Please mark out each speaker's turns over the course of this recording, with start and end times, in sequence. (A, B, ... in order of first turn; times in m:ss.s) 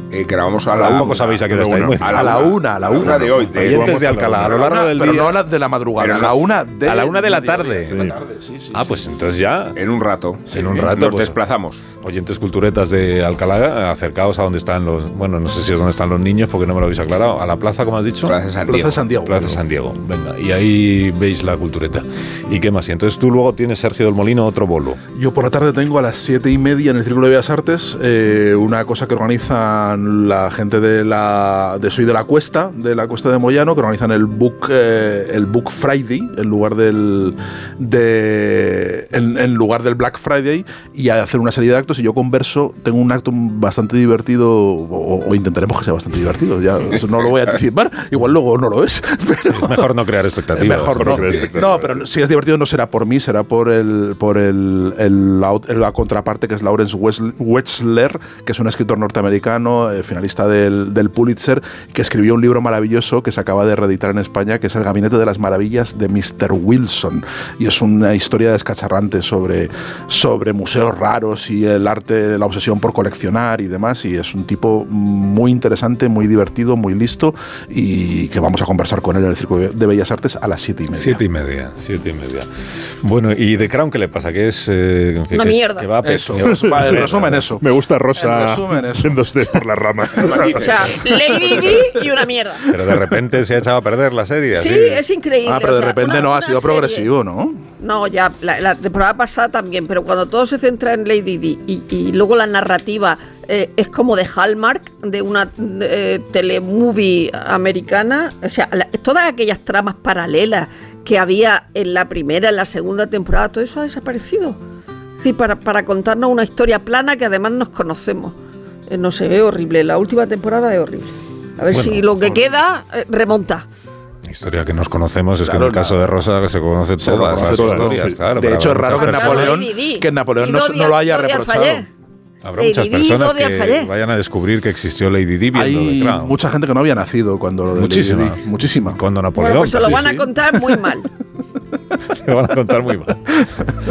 0:00.1-0:04.0 A
0:00.7-0:01.3 B
0:00.8-0:02.4 C
0:01.5-0:02.1 D
0:02.1-0:09.0 B
0:03.1-0:05.4 C
0:03.6-0:04.5 D
0:06.0-0:06.4 A
0:06.8-0:08.1 C
0:08.7-0:09.8 C
0:09.8-0:11.8 A
0:10.5-0:11.4 C
0:12.0-0:18.4 C
0:18.2-0:19.0 A
0:18.7-0:19.6 B
0:19.2-0:25.0 C
0:25.1-0:50.0 B
0:49.5-0:51.7 C
0:50.5-1:21.2 B
0:51.0-0:52.0 D
1:20.9-1:22.5 C
1:23.0-1:27.5 C
1:25.3-1:25.9 E
1:26.0-1:29.2 B
1:26.5-1:30.9 D
1:30.1-1:31.9 A
1:30.6-1:32.7 E
1:32.7-1:35.0 C
1:32.8-1:33.2 B
1:34.5-1:37.1 E
1:35.4-1:37.6 B
1:37.8-1:54.6 E
1:55.2-1:58.4 E
1:58.9-2:03.6 E
2:01.7-2:02.1 C
2:04.2-2:09.6 C
2:05.4-2:06.0 B
2:07.0-2:11.8 B
2:07.4-2:08.2 D
2:08.9-2:11.9 E
2:12.4-2:16.4 C
2:12.6-2:13.9 E
2:15.5-2:19.0 B
2:17.7-2:20.1 C
2:19.4-2:21.1 E
2:19.7-2:20.3 B
2:22.1-2:23.2 C